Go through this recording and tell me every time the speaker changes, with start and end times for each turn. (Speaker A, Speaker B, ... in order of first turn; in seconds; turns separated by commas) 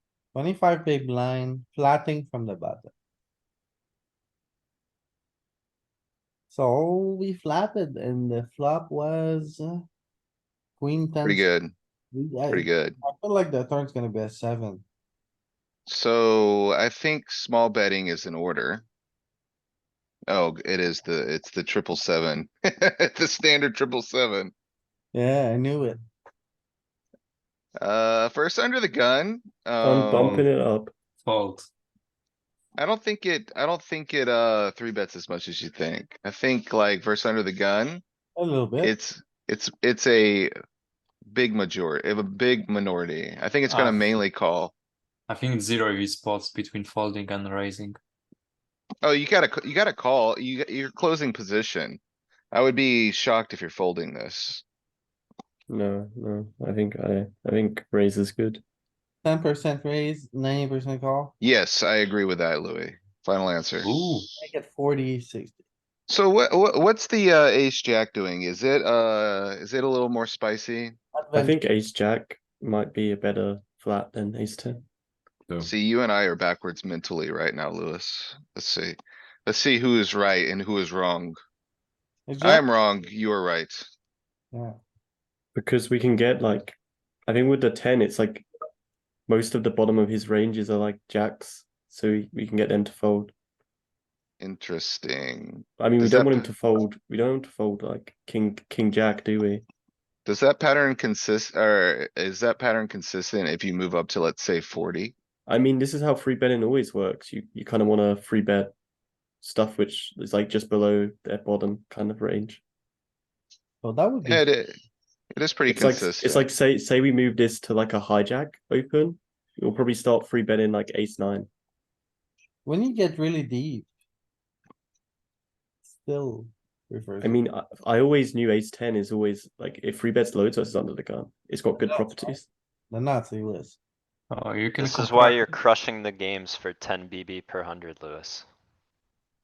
Speaker A: 0.3-2.9, Speaker A: 6.5-9.8, Speaker A: 10.8-11.5, Speaker B: 11.2-11.7, Speaker A: 12.1-14.8, Speaker B: 12.5-12.9, Speaker B: 15.9-18.8, Speaker B: 20.3-24.5, Speaker A: 25.1-26.0, Speaker B: 27.8-30.4, Speaker C: 29.8-30.9, Speaker D: 31.2-31.7, Speaker B: 32.8-38.0, Speaker A: 38.4-38.9, Speaker B: 38.8-40.5, Speaker B: 41.3-44.7, Speaker D: 43.6-44.2, Speaker D: 45.3-48.0, Speaker B: 49.0-52.0, Speaker B: 52.5-54.6, Speaker C: 55.7-58.6, Speaker A: 59.2-61.3, Speaker B: 61.4-64.0, Speaker D: 63.8-64.3, Speaker A: 64.4-65.6, Speaker B: 66.1-71.0, Speaker A: 71.1-71.6, Speaker C: 71.3-74.8, Speaker B: 75.6-81.4, Speaker A: 82.3-82.6, Speaker B: 82.4-83.9, Speaker A: 84.5-84.8, Speaker C: 85.5-88.5, Speaker C: 89.3-93.3, Speaker B: 94.4-96.5, Speaker C: 95.8-99.6, Speaker B: 100.2-105.1, Speaker C: 105.5-108.7, Speaker C: 109.4-112.6, Speaker A: 113.8-114.5, Speaker B: 114.2-114.8, Speaker B: 115.3-116.5, Speaker C: 115.7-121.5, Speaker A: 122.6-123.9, Speaker A: 125.8-127.4, Speaker C: 127.2-132.5, Speaker A: 131.8-132.3, Speaker A: 132.9-133.8, Speaker D: 134.3-135.5, Speaker E: 134.8-138.5